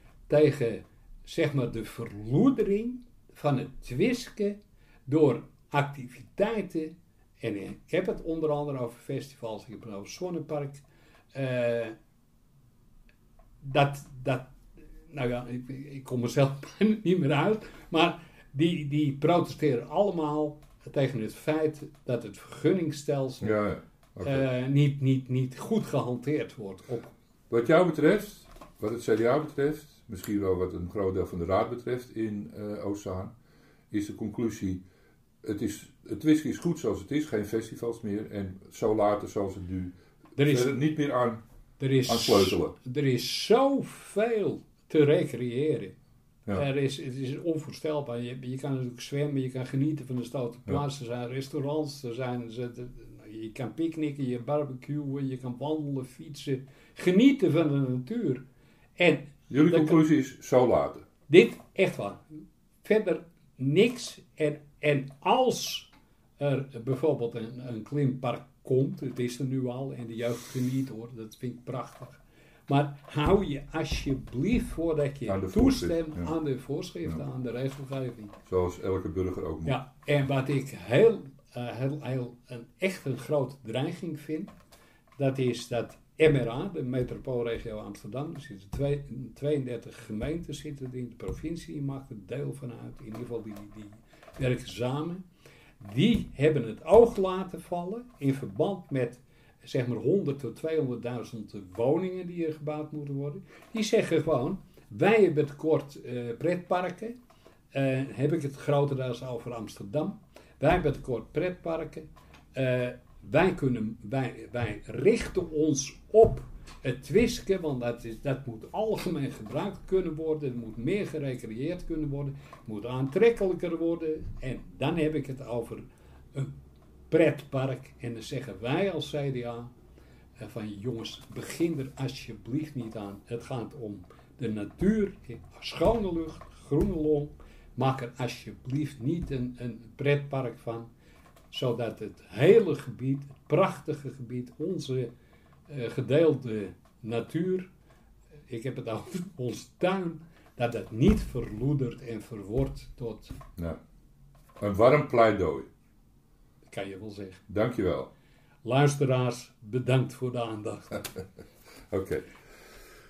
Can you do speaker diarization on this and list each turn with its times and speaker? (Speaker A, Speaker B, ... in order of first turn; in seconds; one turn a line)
Speaker A: 0.3-11.9
Speaker A: 13.6-14.5
Speaker A: 15.1-23.6
Speaker B: 23.4-24.4
Speaker A: 24.2-27.1
Speaker B: 27.5-33.3
Speaker B: 33.9-34.8
Speaker B: 35.4-41.4
Speaker A: 40.4-40.7
Speaker A: 41.8-45.9
Speaker B: 42.1-42.7
Speaker A: 46.5-58.4
Speaker A: 59.0-60.0
Speaker B: 59.5-61.0
Speaker A: 61.3-62.2
Speaker A: 62.8-78.3
Speaker B: 75.3-76.3
Speaker B: 78.5-79.8
Speaker A: 79.6-84.5
Speaker A: 85.2-95.2
Speaker A: 95.8-107.2
Speaker A: 107.7-126.5
Speaker A: 127.1-129.7
Speaker A: 130.4-140.9
Speaker A: 141.5-145.1
Speaker A: 145.7-147.7
Speaker A: 148.5-153.4
Speaker B: 154.6-155.7
Speaker A: 156.7-157.4
Speaker B: 157.5-158.1
Speaker A: 158.6-161.1
Speaker B: 161.9-162.2